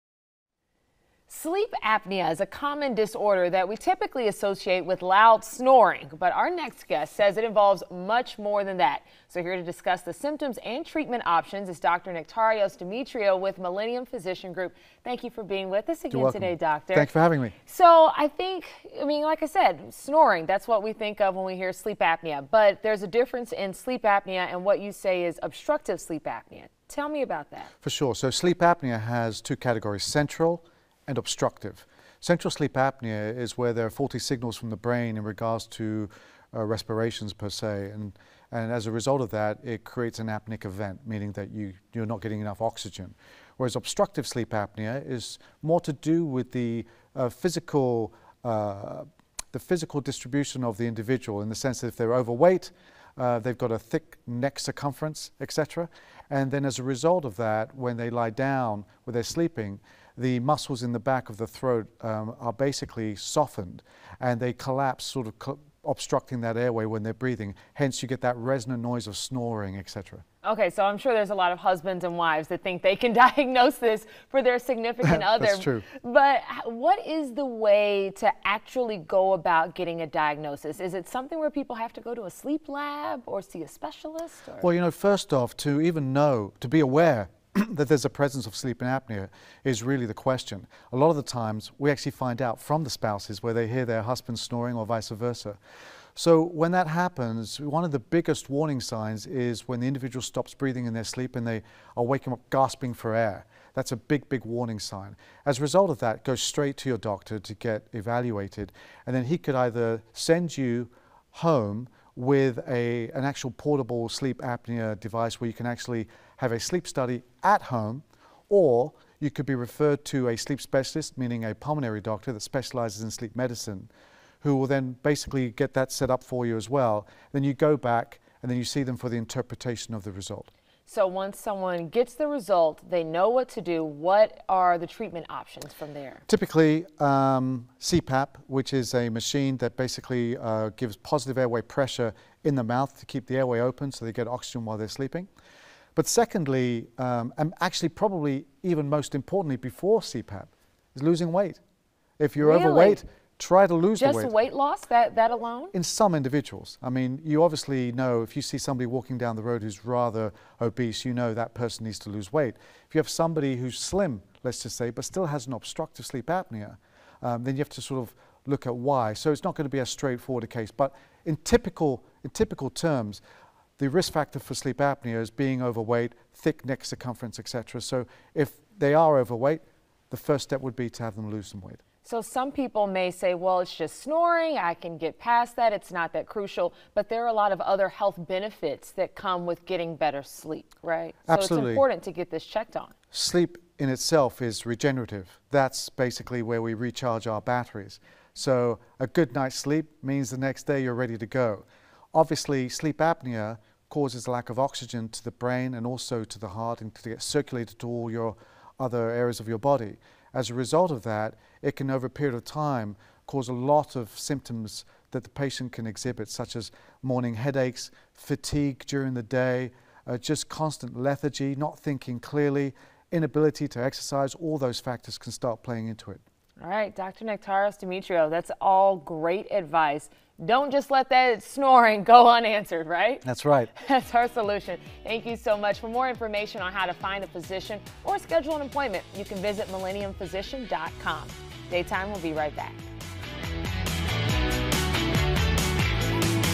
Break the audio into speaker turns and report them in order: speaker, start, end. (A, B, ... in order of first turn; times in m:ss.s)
0:01.3-0:27.7 A
0:16.1-0:17.5 B
0:27.8-1:10.2 B
1:10.4-1:24.7 A
1:15.0-1:15.9 B
1:24.6-1:35.6 B
1:36.1-2:03.9 B
2:04.4-2:10.5 B
2:10.8-2:16.2 A
2:16.3-2:25.3 B
2:26.0-2:31.6 B
2:32.2-2:34.3 B
2:32.4-2:33.0 A
2:34.0-2:35.7 A
2:35.7-2:53.2 B
2:53.8-3:01.8 B
3:02.0-3:12.9 A
3:11.3-3:11.8 B
3:13.1-3:46.2 B
3:46.6-4:02.8 A
3:53.2-3:53.7 B